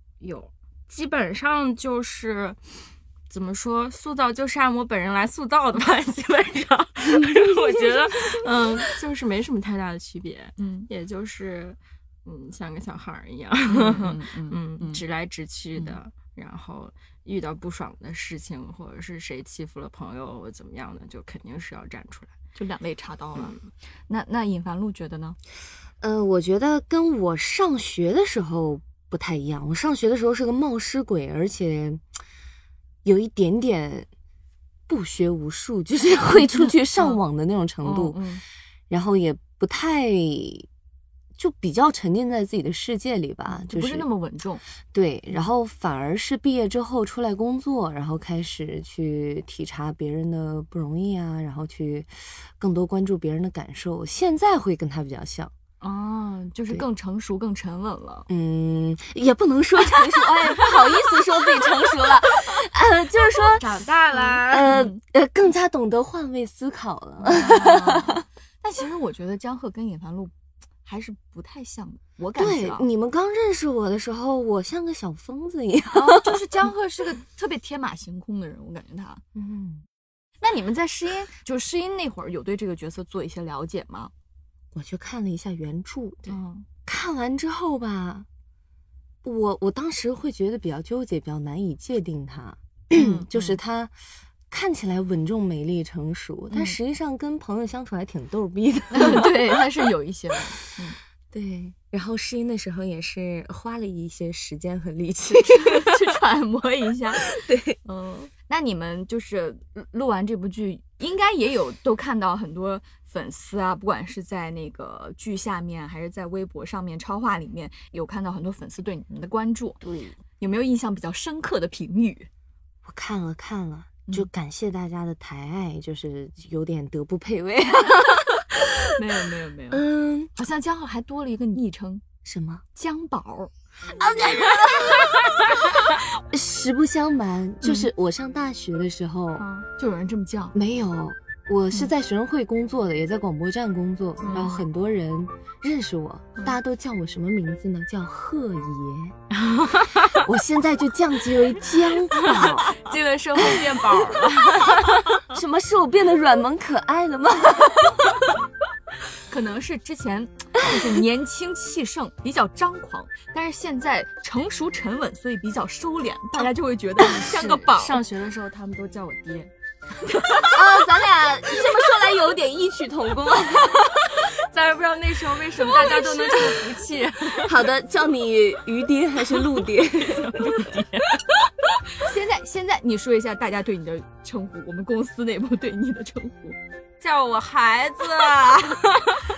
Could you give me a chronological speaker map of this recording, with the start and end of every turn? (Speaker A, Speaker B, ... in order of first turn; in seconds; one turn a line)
Speaker A: 0.2-22.3
Speaker B: 10.6-10.9
Speaker B: 13.7-15.0
Speaker B: 22.6-25.4
Speaker C: 26.0-32.0
Speaker C: 33.0-34.1
Speaker C: 34.9-38.2
Speaker B: 37.8-38.4
Speaker C: 38.9-40.7
Speaker C: 41.4-44.1
Speaker B: 43.5-44.6
Speaker C: 44.9-55.5
Speaker B: 55.8-58.3
Speaker C: 58.3-63.7
Speaker A: 63.6-64.8
Speaker B: 64.1-65.0
Speaker C: 64.5-68.2
Speaker B: 67.2-70.3
Speaker B: 70.8-72.9
Speaker C: 72.4-76.4
Speaker B: 75.9-79.2
Speaker C: 79.3-79.8
Speaker B: 80.4-84.1
Speaker C: 84.7-88.3
Speaker B: 86.3-86.7
Speaker C: 89.2-93.9
Speaker B: 92.9-93.6
Speaker C: 94.5-99.3
Speaker B: 96.5-96.8
Speaker B: 98.9-101.0
Speaker C: 101.3-106.0
Speaker B: 105.5-107.3
Speaker C: 107.2-107.8
Speaker B: 107.8-119.8
Speaker A: 119.8-120.2
Speaker B: 120.4-122.3
Speaker C: 122.8-128.9
Speaker B: 129.0-129.8
Speaker C: 129.7-130.3
Speaker B: 130.3-132.0
Speaker C: 132.2-132.6
Speaker B: 132.8-133.5
Speaker C: 133.9-139.5
Speaker B: 139.6-140.6
Speaker C: 140.6-149.2
Speaker A: 144.3-144.6
Speaker A: 149.4-150.1
Speaker C: 150.1-152.7
Speaker A: 152.2-155.2
Speaker C: 153.4-158.3
Speaker B: 159.3-168.0
Speaker A: 167.0-169.5
Speaker B: 170.2-170.5
Speaker C: 170.5-174.2
Speaker A: 174.2-177.6
Speaker C: 176.2-176.5
Speaker C: 177.4-180.8
Speaker A: 180.0-181.5
Speaker B: 182.0-186.6
Speaker A: 187.0-189.2